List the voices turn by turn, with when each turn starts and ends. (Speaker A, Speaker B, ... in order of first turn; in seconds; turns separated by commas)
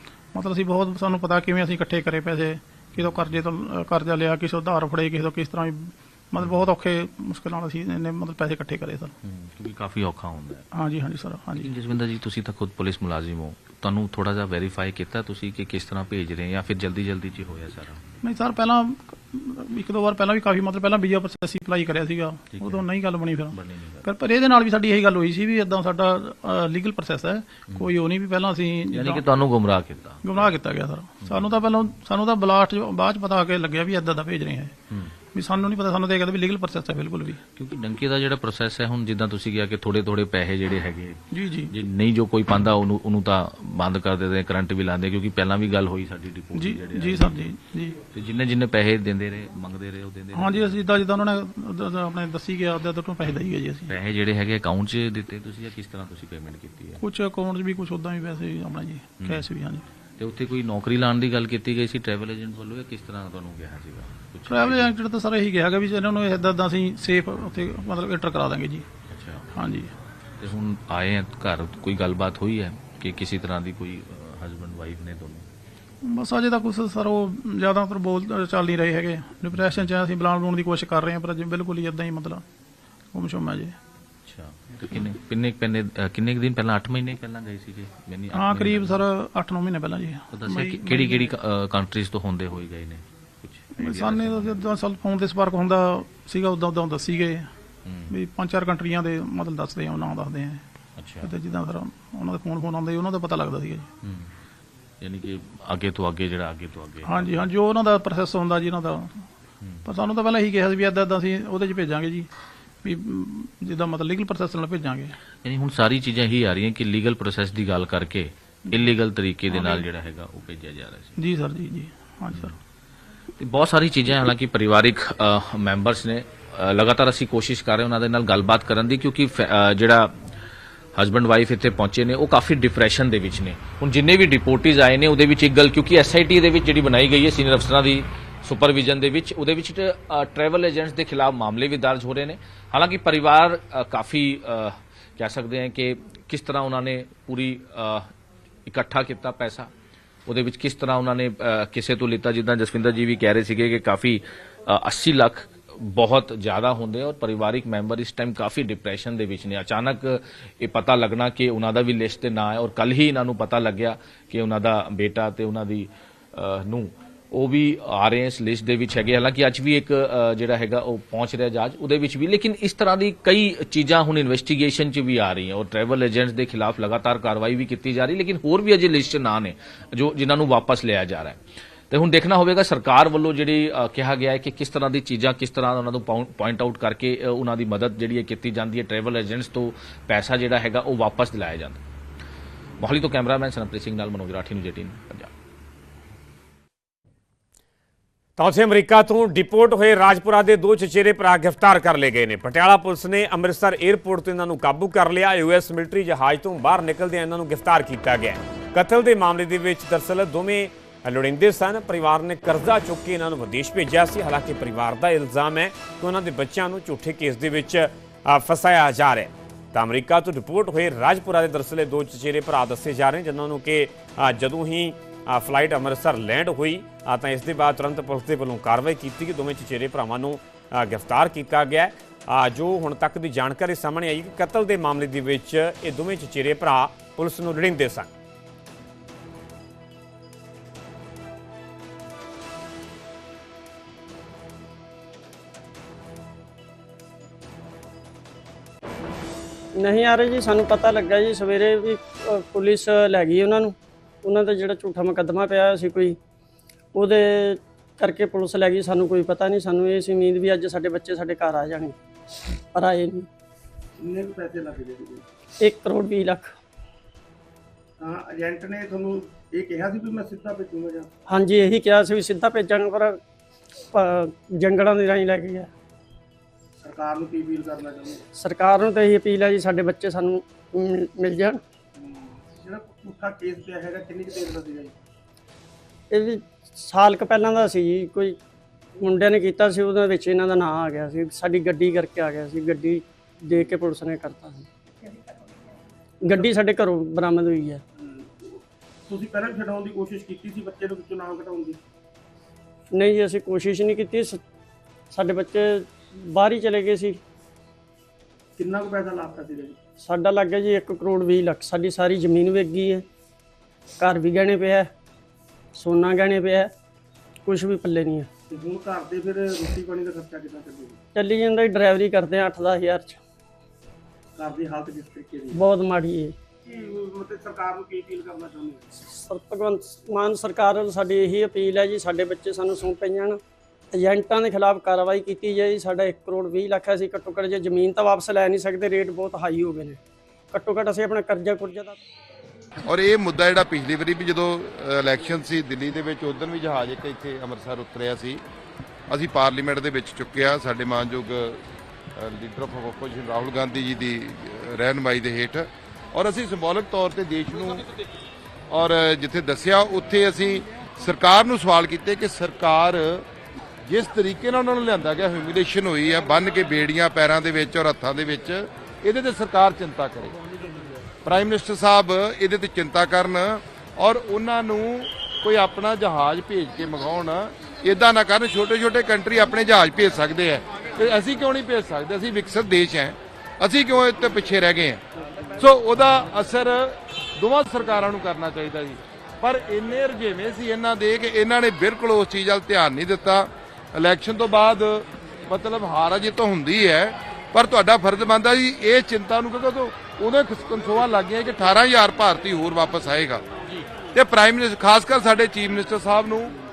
Speaker A: 0.3-9.1, Speaker B: 9.2-10.7, Speaker A: 10.7-11.7, Speaker B: 11.6-18.1, Speaker A: 18.2-29.2, Speaker B: 22.5-22.9, Speaker B: 23.5-24.1, Speaker B: 28.9-30.5, Speaker A: 30.2-34.8, Speaker B: 31.2-31.5, Speaker A: 35.3-37.4, Speaker B: 37.6-47.4, Speaker A: 41.3-41.7, Speaker A: 46.6-48.0, Speaker B: 48.1-50.8, Speaker A: 50.3-53.9, Speaker B: 53.9-57.0, Speaker A: 57.0-59.8, Speaker B: 59.2-59.5, Speaker B: 60.2-64.9, Speaker A: 64.5-68.9, Speaker B: 69.1-69.6, Speaker A: 69.5-69.9, Speaker B: 70.4-75.5, Speaker A: 76.0-82.4, Speaker B: 79.5-79.8, Speaker A: 83.1-83.8, Speaker B: 84.2-89.0, Speaker A: 88.3-91.3, Speaker B: 90.3-94.6, Speaker A: 93.8-97.5, Speaker B: 97.8-98.1, Speaker A: 98.1-100.7, Speaker B: 101.0-101.3, Speaker A: 101.2-103.9, Speaker B: 104.0-104.3, Speaker B: 105.0-107.4, Speaker A: 107.1-109.3, Speaker A: 109.8-112.3, Speaker A: 112.8-115.2, Speaker B: 115.4-121.2, Speaker A: 119.5-119.8, Speaker A: 121.2-122.5, Speaker B: 123.4-130.3, Speaker B: 131.0-148.1, Speaker B: 148.7-149.7, Speaker B: 150.3-191.8, Speaker B: 192.8-195.3, Speaker C: 198.4-238.1, Speaker D: 249.8-256.2, Speaker D: 256.9-262.0, Speaker D: 262.7-263.3, Speaker E: 264.0-265.2, Speaker D: 265.6-266.6, Speaker E: 268.0-271.1, Speaker D: 271.3-273.2, Speaker D: 273.9-275.7, Speaker E: 276.8-278.2, Speaker D: 278.4-281.6, Speaker E: 282.0-284.9, Speaker D: 286.1-288.4, Speaker D: 289.0-294.7, Speaker D: 296.2-297.8, Speaker E: 298.0-301.8, Speaker D: 302.9-304.4, Speaker D: 305.1-307.2, Speaker E: 308.6-309.8, Speaker D: 310.0-313.1, Speaker D: 314.0-314.9, Speaker D: 315.8-316.7, Speaker D: 317.5-318.3, Speaker E: 318.5-321.0, Speaker D: 321.1-323.2, Speaker E: 324.4-325.6, Speaker D: 325.5-326.4, Speaker E: 326.6-329.0, Speaker D: 329.2-333.4, Speaker D: 333.9-340.0, Speaker D: 340.5-342.0, Speaker F: 342.9-348.4, Speaker F: 349.1-351.6, Speaker F: 352.2-357.8, Speaker F: 358.7-363.2, Speaker F: 363.9-370.4, Speaker F: 371.2-385.0, Speaker F: 385.6-403.4, Speaker F: 404.1-406.5